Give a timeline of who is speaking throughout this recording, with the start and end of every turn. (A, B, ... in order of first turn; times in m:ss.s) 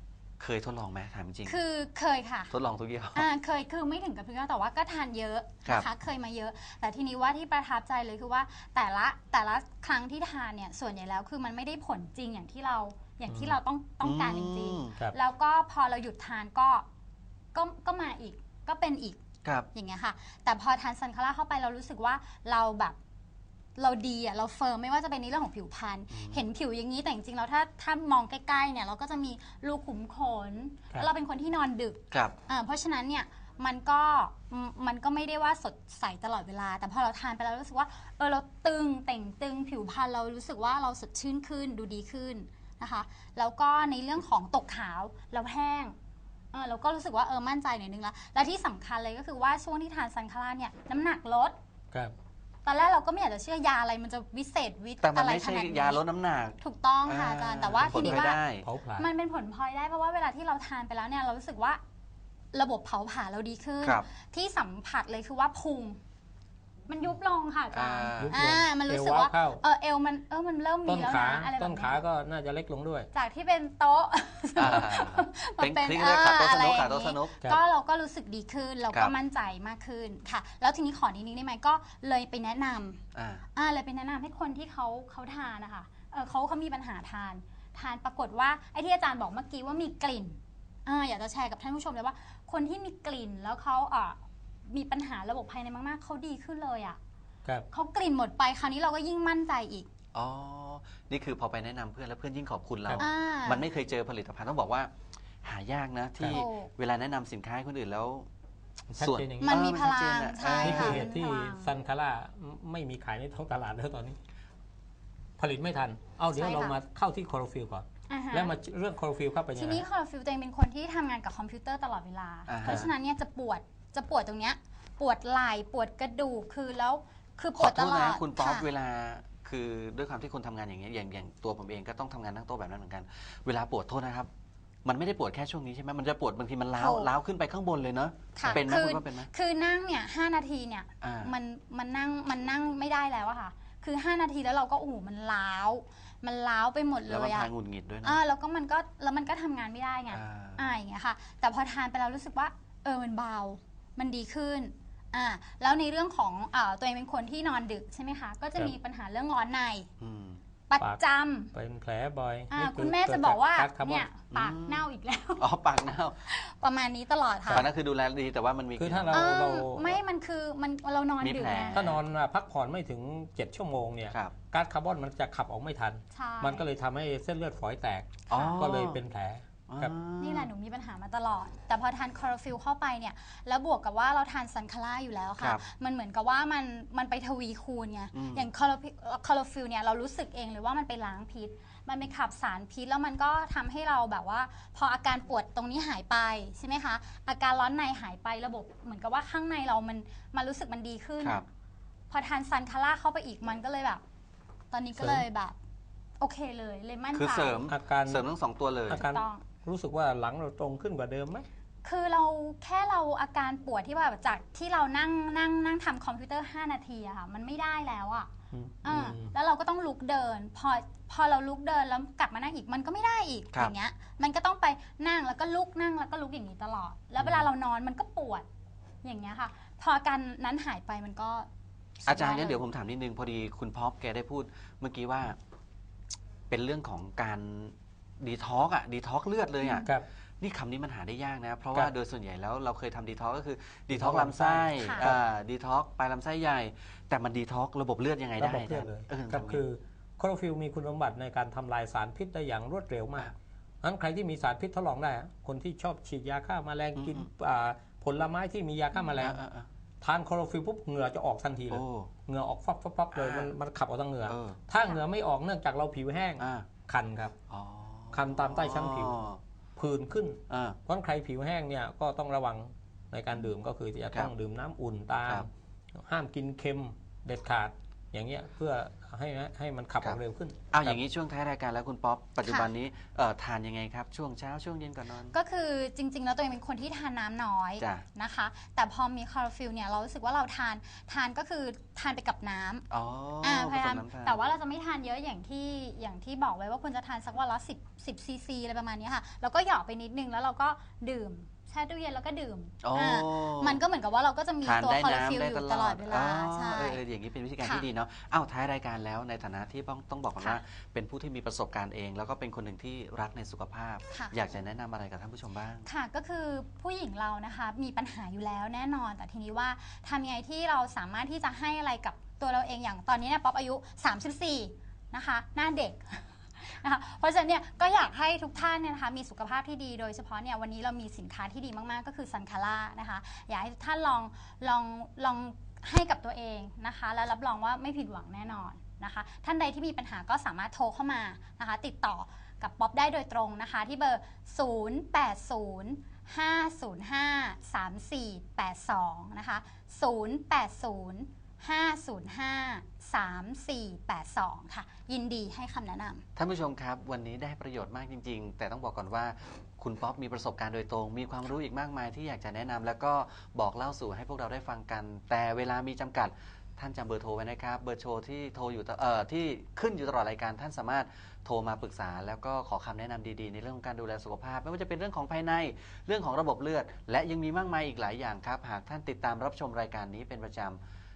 0:00.4-0:01.6 A
0:01.5-0:02.5 B
0:02.5-0:03.3 A
0:03.2-0:16.9 B
0:14.0-0:15.0 A
0:17.5-0:19.2 B
0:19.7-0:23.0 B
0:23.8-0:46.0 B
0:26.1-0:26.4 A
0:32.1-0:32.4 A
0:46.5-0:51.6 B
0:52.6-0:56.0 B
0:55.0-0:58.7 A
0:56.6-0:58.4 B
0:57.8-0:59.1 C
0:59.0-1:01.8 B
1:02.5-1:06.0 B
1:06.9-1:12.0 B
1:07.7-1:08.4 A
1:08.2-1:09.6 C
1:10.9-1:13.1 C
1:13.1-1:23.0 B
1:14.6-1:17.4 A
1:23.1-1:23.4 A
1:23.6-1:37.0 B
1:37.7-1:39.9 B
1:40.1-1:44.9 A
1:43.0-1:43.6 B
1:45.4-1:48.3 A
1:46.3-1:46.7 B
1:48.9-1:49.6 C
1:49.0-1:51.0 A
1:49.4-1:51.7 B
1:50.6-1:54.2 C
1:55.4-1:59.9 C
1:56.3-1:56.8 B
1:58.1-1:58.6 B
1:59.6-2:08.7 B
2:02.5-2:02.9 A
2:02.6-2:02.9 C
2:07.6-2:14.3 A
2:14.8-2:19.3 A
2:16.8-2:17.1 B
2:18.4-2:27.5 B
2:21.0-2:21.3 A
2:27.1-2:28.2 A
2:28.0-2:39.9 B
2:30.1-2:30.7 A
2:40.0-2:40.4 A
2:40.7-2:41.5 B
2:41.5-2:44.1 C
2:42.5-2:45.5 B
2:44.3-2:44.9 A
2:45.4-2:46.2 A
2:46.3-2:47.7 B
2:47.5-2:49.3 A
2:48.8-2:50.0 C
2:49.1-2:51.9 B
2:51.2-2:52.0 A
2:51.7-2:59.9 C
2:56.1-2:56.7 B
2:58.3-2:59.0 A
2:58.3-2:58.6 B
2:59.7-3:00.5 A
3:00.2-3:21.4 B
3:08.1-3:08.5 A
3:22.1-3:24.0 B
3:24.7-3:25.6 B
3:25.0-3:25.2 C
3:26.2-3:27.6 B
3:27.1-3:29.0 A
3:27.7-3:28.2 C
3:28.9-3:31.5 C
3:29.0-3:29.4 B
3:31.8-3:38.3 B
3:38.5-3:39.3 C
3:38.8-3:48.5 B
3:49.0-3:51.5 B
3:52.0-3:52.6 B
3:52.1-3:55.4 A
3:56.5-4:09.6 A
3:59.6-3:59.9 B
4:03.9-4:05.2 C
4:04.8-4:05.1 B
4:08.4-4:19.4 C
4:17.0-4:17.3 A
4:19.2-4:19.7 A
4:20.0-4:27.4 C
4:21.7-4:22.1 A
4:23.1-4:23.5 A
4:24.3-4:24.6 A
4:26.4-4:26.7 A
4:27.5-4:29.4 A
4:28.1-4:29.2 C
4:29.8-4:41.0 C
4:30.5-4:30.8 A
4:40.7-4:45.4 A
4:45.3-4:52.8 B
4:47.8-4:48.0 A
4:52.9-4:54.4 A
4:53.4-5:07.0 B
5:02.8-5:03.8 A
5:04.6-5:15.9 A
5:15.8-5:56.2 B
5:56.4-6:20.8 A